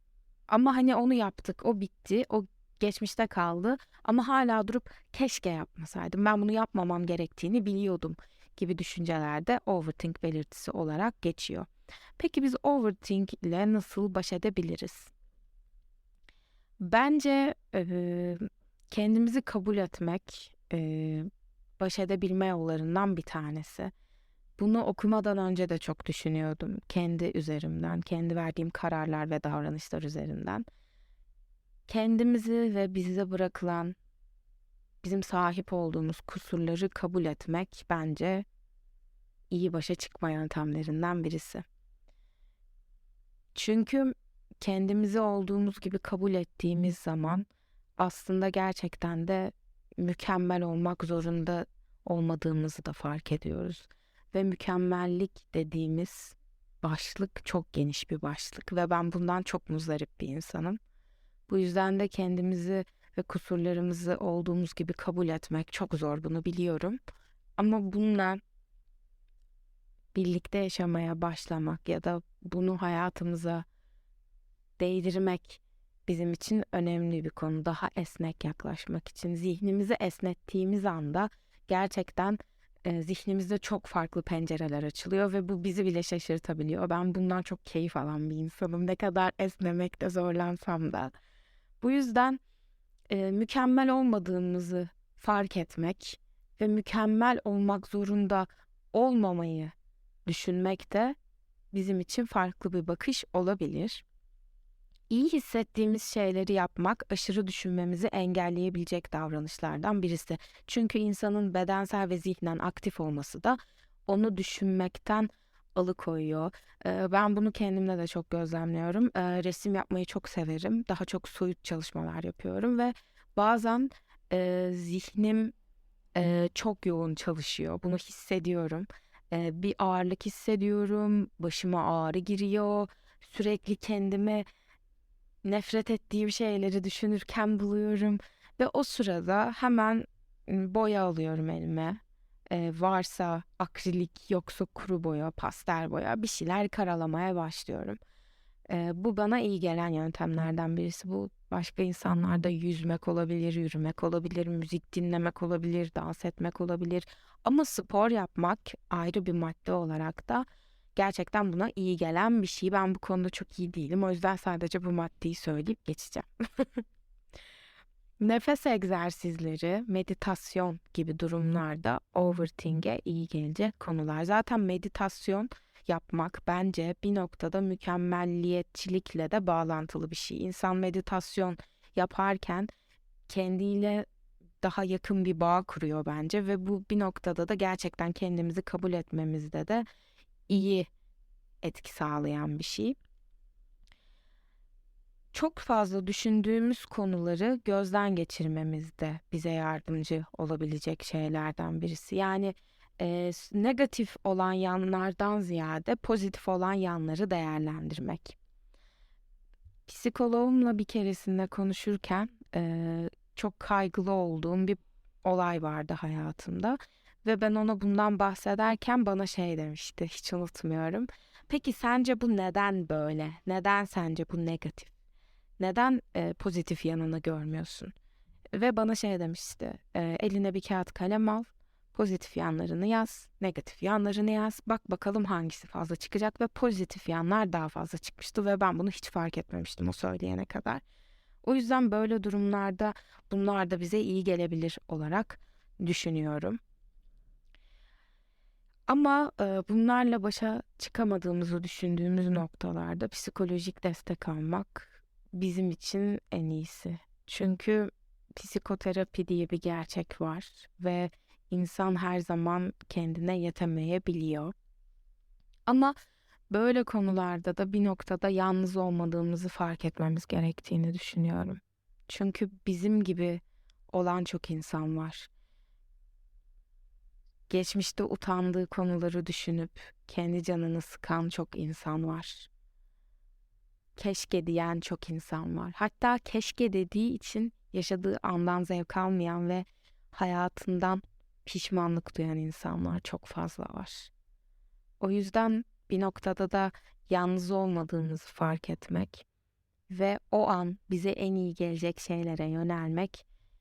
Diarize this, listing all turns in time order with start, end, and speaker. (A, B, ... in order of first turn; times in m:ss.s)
0:00.5-0:15.1 A
0:16.8-0:21.3 A
0:21.8-0:23.9 A
0:24.6-0:30.6 A
0:31.9-0:34.0 A
0:35.0-0:38.5 A
0:39.5-0:41.6 A
0:43.6-0:47.5 A
0:48.0-1:00.8 A
1:01.5-1:07.0 A
1:07.6-1:08.4 A
1:10.1-1:13.6 A
1:14.8-1:31.1 A
1:31.8-1:32.4 A
1:33.1-1:39.7 A
1:40.3-1:41.2 A
1:41.7-1:44.0 A
1:45.1-2:05.5 A
2:06.2-2:14.4 A
2:15.4-2:28.0 A
2:28.7-2:40.4 A
2:41.0-2:46.8 A
2:48.2-3:02.7 A
3:03.3-3:04.1 A
3:04.6-3:09.8 A
3:10.5-3:10.9 A
3:11.6-3:13.0 A
3:15.3-3:28.4 A
3:29.9-3:44.9 A
3:45.6-3:47.9 A
3:48.5-4:00.8 A
4:01.4-4:06.6 A
4:08.9-4:24.5 A
4:25.7-4:26.0 A
4:26.5-4:35.3 A
4:37.5-4:42.5 A
4:44.0-4:54.1 A
4:55.0-4:59.2 A
4:59.9-5:03.2 A